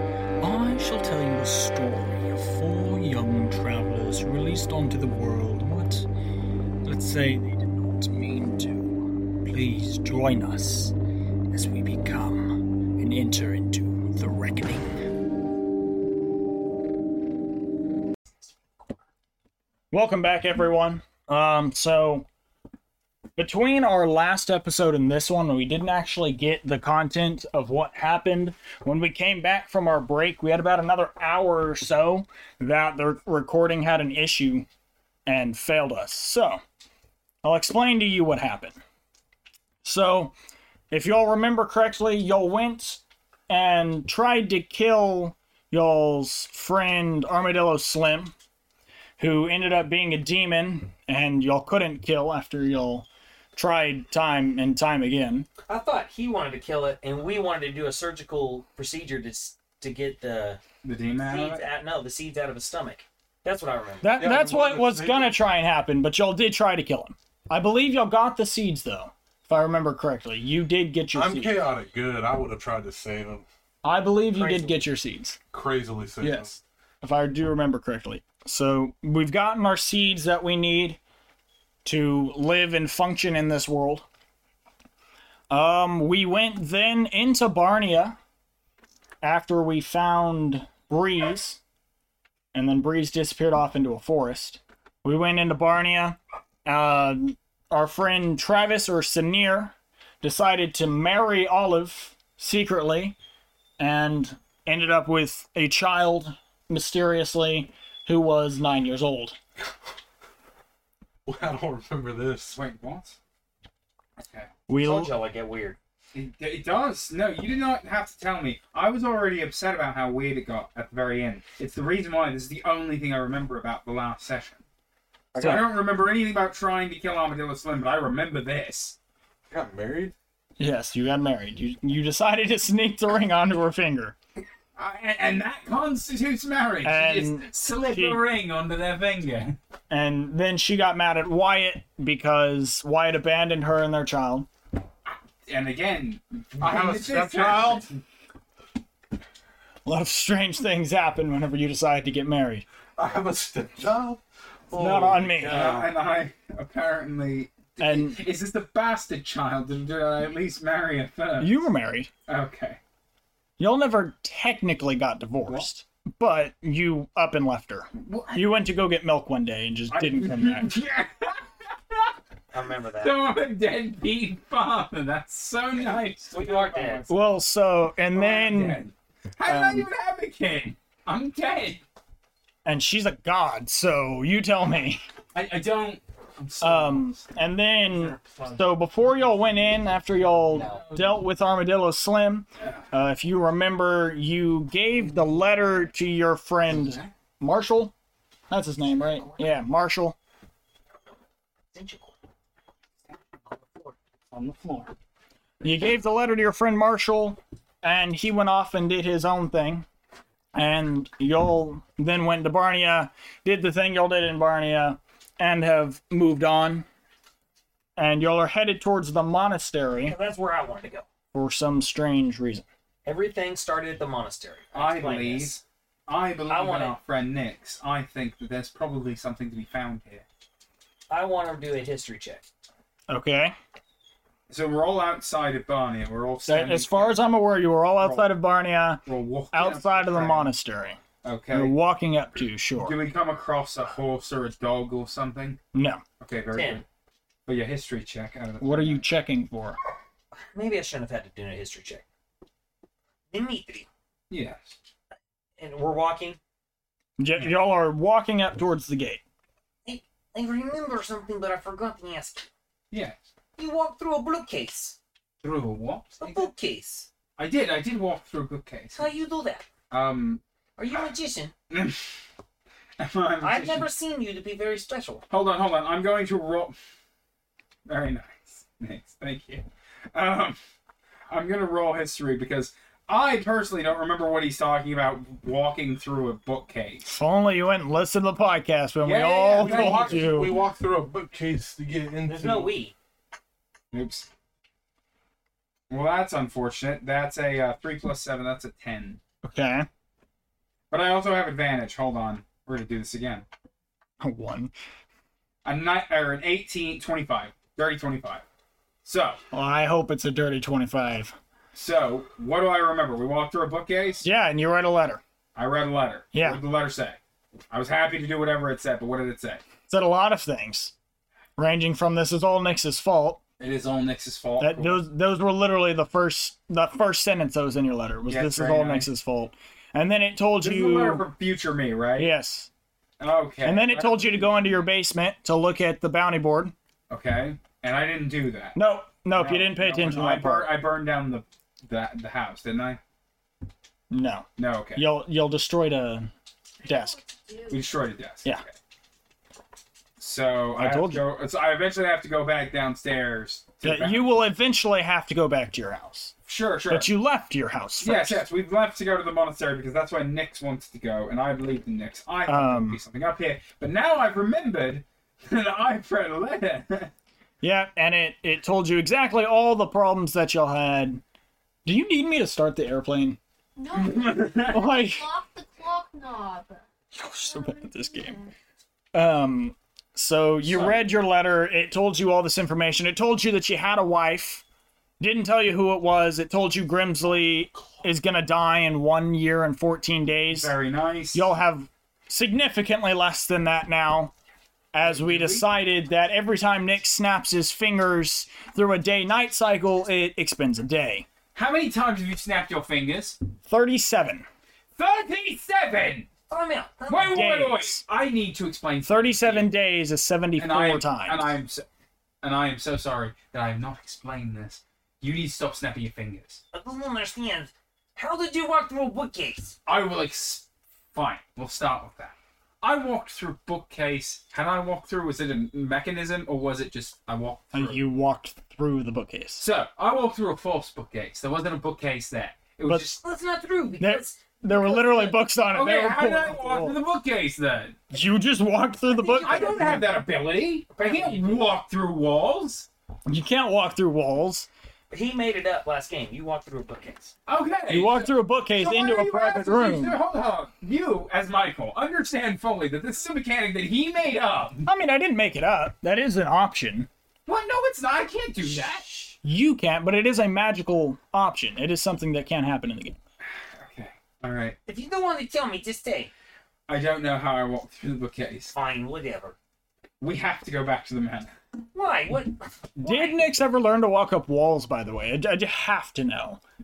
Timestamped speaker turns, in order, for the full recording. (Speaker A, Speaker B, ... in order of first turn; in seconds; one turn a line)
Speaker A: 0.4-6.1
Speaker A: 6.8-10.9
Speaker A: 11.5-15.1
Speaker A: 19.9-22.3
Speaker A: 23.4-34.7
Speaker A: 35.2-36.6
Speaker A: 37.4-38.8
Speaker A: 39.8-40.4
Speaker A: 40.9-48.3
Speaker A: 49.2-55.5
Speaker B: 55.7-60.6
Speaker C: 60.8-61.6
Speaker B: 61.2-64.1
Speaker A: 64.0-71.7
Speaker D: 64.2-65.4
Speaker D: 71.1-73.5
Speaker A: 73.8-75.4
Speaker B: 74.3-74.8
Speaker D: 75.5-76.6
Speaker A: 76.2-81.0
Speaker A: 81.8-84.0
Speaker A: 85.5-88.2
Speaker A: 89.2-91.6
Speaker A: 92.5-103.2
Speaker A: 103.8-109.4
Speaker D: 111.2-112.6
Speaker C: 112.5-113.2
Speaker C: 114.2-114.5
Speaker A: 114.7-115.1
Speaker B: 114.8-115.8
Speaker C: 116.1-124.6
Speaker A: 125.3-125.7
Speaker C: 125.4-128.9
Speaker D: 129.5-130.1
Speaker A: 130.6-134.1
Speaker C: 134.8-139.6
Speaker A: 136.8-138.2
Speaker A: 139.9-144.5
Speaker C: 145.5-148.0
Speaker D: 146.6-147.9
Speaker A: 149.8-152.6
Speaker D: 153.0-155.9
Speaker A: 154.7-155.8
Speaker C: 155.4-161.6
Speaker A: 157.8-158.2
Speaker A: 161.4-162.1
Speaker C: 162.3-162.8
Speaker A: 163.6-170.7
Speaker C: 168.0-168.6
Speaker C: 169.9-172.1
Speaker B: 172.5-173.2
Speaker C: 173.0-177.3
Speaker B: 176.3-177.0
Speaker A: 177.1-178.9
Speaker C: 178.1-181.8
Speaker A: 179.4-179.9
Speaker A: 182.6-185.0
Speaker C: 185.3-187.4
Speaker A: 186.6-197.9
Speaker C: 187.9-188.6
Speaker C: 190.5-191.2
Speaker C: 196.7-197.1
Speaker A: 198.5-200.2
Speaker B: 198.9-199.6
Speaker B: 201.7-202.1
Speaker C: 204.3-204.9
Speaker A: 205.6-209.8
Speaker A: 210.5-216.8
Speaker A: 218.0-220.1
Speaker B: 220.0-221.1
Speaker A: 221.3-222.7
Speaker B: 223.0-225.6
Speaker C: 224.7-230.2
Speaker B: 226.5-226.9
Speaker B: 231.1-232.4
Speaker A: 233.1-233.6
Speaker C: 234.5-237.2
Speaker A: 236.5-241.0
Speaker C: 238.0-238.3
Speaker C: 239.1-240.5
Speaker C: 241.2-241.7
Speaker A: 241.5-243.0
Speaker C: 242.8-245.6
Speaker A: 245.7-246.0
Speaker C: 246.2-246.8
Speaker B: 246.5-246.8
Speaker C: 247.4-249.1
Speaker A: 248.6-249.8
Speaker B: 250.5-252.0
Speaker B: 253.3-253.9
Speaker C: 254.3-254.8
Speaker B: 255.6-256.4
Speaker A: 257.2-259.2
Speaker B: 259.8-262.5
Speaker C: 262.9-263.2
Speaker B: 263.6-265.0
Speaker C: 265.4-266.5
Speaker B: 266.2-267.1
Speaker C: 267.4-269.2
Speaker B: 268.9-269.7
Speaker C: 269.9-270.4
Speaker B: 270.8-271.5
Speaker C: 271.7-272.0
Speaker C: 273.0-273.9
Speaker B: 273.4-275.2
Speaker C: 275.3-276.8
Speaker C: 277.9-280.6
Speaker C: 281.3-287.1
Speaker A: 287.1-290.6
Speaker C: 289.0-290.5
Speaker D: 289.6-292.7
Speaker B: 292.2-292.9
Speaker C: 293.9-294.3
Speaker C: 295.9-299.2
Speaker A: 299.4-299.9
Speaker C: 300.9-303.4
Speaker A: 304.2-304.7
Speaker C: 305.6-308.4
Speaker C: 309.0-309.4
Speaker A: 309.5-311.4
Speaker C: 311.7-314.2
Speaker A: 314.2-315.2
Speaker C: 315.5-317.2
Speaker A: 316.3-316.6
Speaker C: 317.7-319.6
Speaker A: 319.9-320.9
Speaker A: 321.6-323.4
Speaker C: 323.6-325.0
Speaker A: 324.6-331.3
Speaker C: 328.2-329.1
Speaker C: 330.6-332.3
Speaker A: 332.2-332.7
Speaker C: 333.2-334.9
Speaker A: 333.6-336.7
Speaker C: 337.1-338.8
Speaker A: 338.7-340.7
Speaker C: 339.3-343.0
Speaker A: 344.1-346.3
Speaker C: 344.6-345.1
Speaker A: 346.8-347.2
Speaker E: 346.8-347.8
Speaker C: 347.7-348.7
Speaker C: 350.2-354.3
Speaker A: 350.8-351.2
Speaker A: 353.8-356.3
Speaker C: 356.4-357.1
Speaker A: 356.9-358.4
Speaker C: 358.0-367.1
Speaker A: 362.5-363.0
Speaker A: 367.6-371.2
Speaker A: 371.8-373.4
Speaker E: 373.8-376.8
Speaker C: 373.9-374.8
Speaker A: 374.7-375.3
Speaker A: 377.1-378.4
Speaker E: 377.4-378.5
Speaker A: 379.1-384.6
Speaker C: 380.6-381.1
Speaker A: 385.2-390.7
Speaker C: 390.5-391.5
Speaker A: 391.3-394.3
Speaker A: 394.9-401.3
Speaker C: 395.0-395.7
Speaker C: 401.5-403.4
Speaker A: 403.7-404.5
Speaker C: 405.0-406.3
Speaker B: 406.5-407.4
Speaker C: 407.1-409.7
Speaker A: 407.2-408.0
Speaker A: 409.0-411.5
Speaker C: 410.6-411.9
Speaker C: 412.4-416.6
Speaker B: 416.7-419.8
Speaker C: 419.9-428.0
Speaker A: 427.7-429.6
Speaker C: 429.6-433.2
Speaker B: 433.0-435.4
Speaker A: 434.0-436.9
Speaker C: 435.7-438.0
Speaker A: 438.1-440.1
Speaker B: 439.1-440.1
Speaker C: 439.4-442.9
Speaker B: 440.9-441.7
Speaker A: 443.2-444.7
Speaker B: 445.1-447.3
Speaker C: 447.5-454.9
Speaker A: 447.9-450.2
Speaker A: 454.9-457.1
Speaker C: 457.5-459.2
Speaker A: 459.4-463.2
Speaker C: 463.8-464.8
Speaker B: 464.9-466.3
Speaker C: 466.9-468.7
Speaker B: 468.7-469.6
Speaker C: 470.2-471.5
Speaker B: 471.9-473.4
Speaker A: 473.0-476.6